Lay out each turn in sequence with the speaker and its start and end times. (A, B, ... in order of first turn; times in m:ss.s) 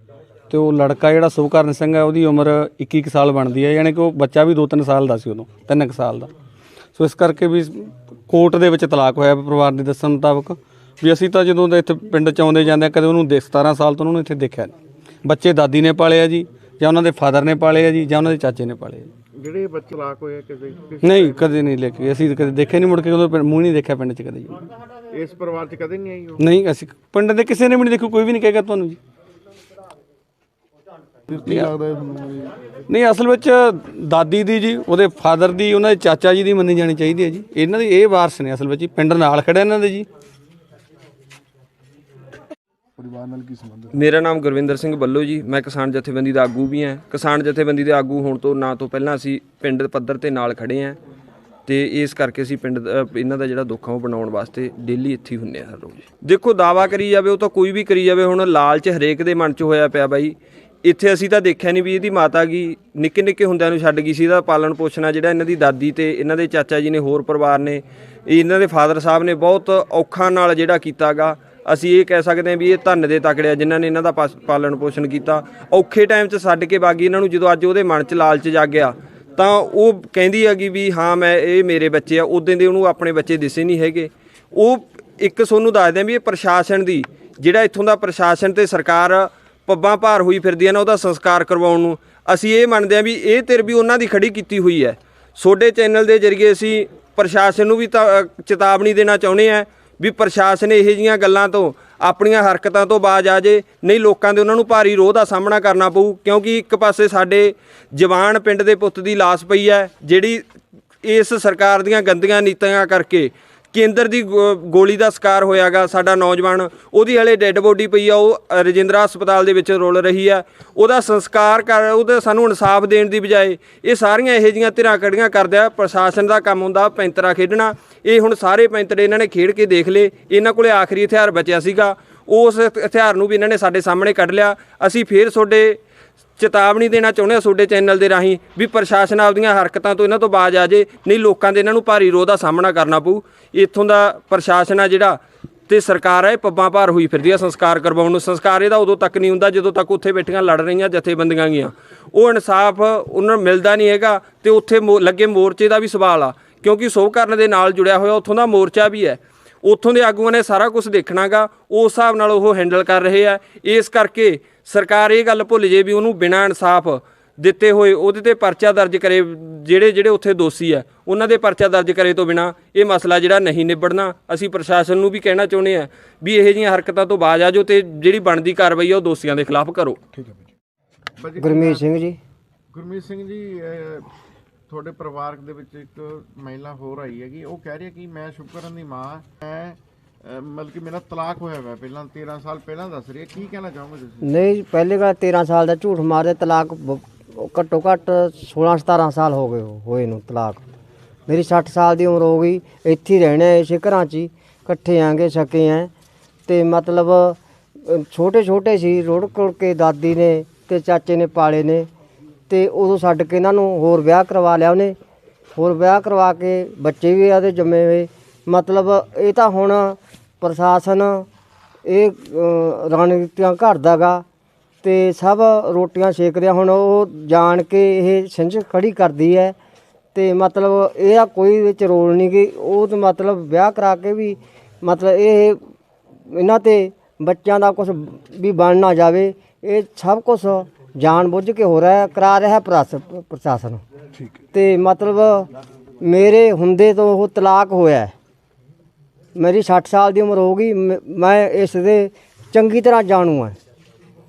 0:00.5-0:06.3 A
0:07.0-0:19.1 A
0:19.3-0:21.5 B
0:21.0-0:24.6 A
0:25.1-0:26.4 B
0:26.4-0:29.0 A
0:31.3-0:32.6 C
0:31.4-0:31.7 A
0:32.9-0:40.1 A
0:43.0-0:44.0 C
0:43.9-0:51.0 D
0:51.7-1:50.4 D
1:51.0-2:15.8 D
2:16.4-3:00.0 D
3:00.1-3:00.5 C
3:01.2-3:01.8 B
3:01.4-3:02.2 E
3:02.7-3:04.1 B
3:04.7-3:14.2 B
3:14.2-3:20.6 E
3:21.3-3:25.9 E
3:26.5-3:31.9 E
3:32.5-3:34.9 E
3:35.6-3:41.2 E
3:41.8-3:44.2 E
3:44.8-3:49.5 E
3:50.1-3:55.6 E
3:56.3-4:03.8 E
4:04.1-4:04.4 C
4:04.5-4:05.5 E
4:06.0-4:08.1 E
4:09.4-4:13.6 E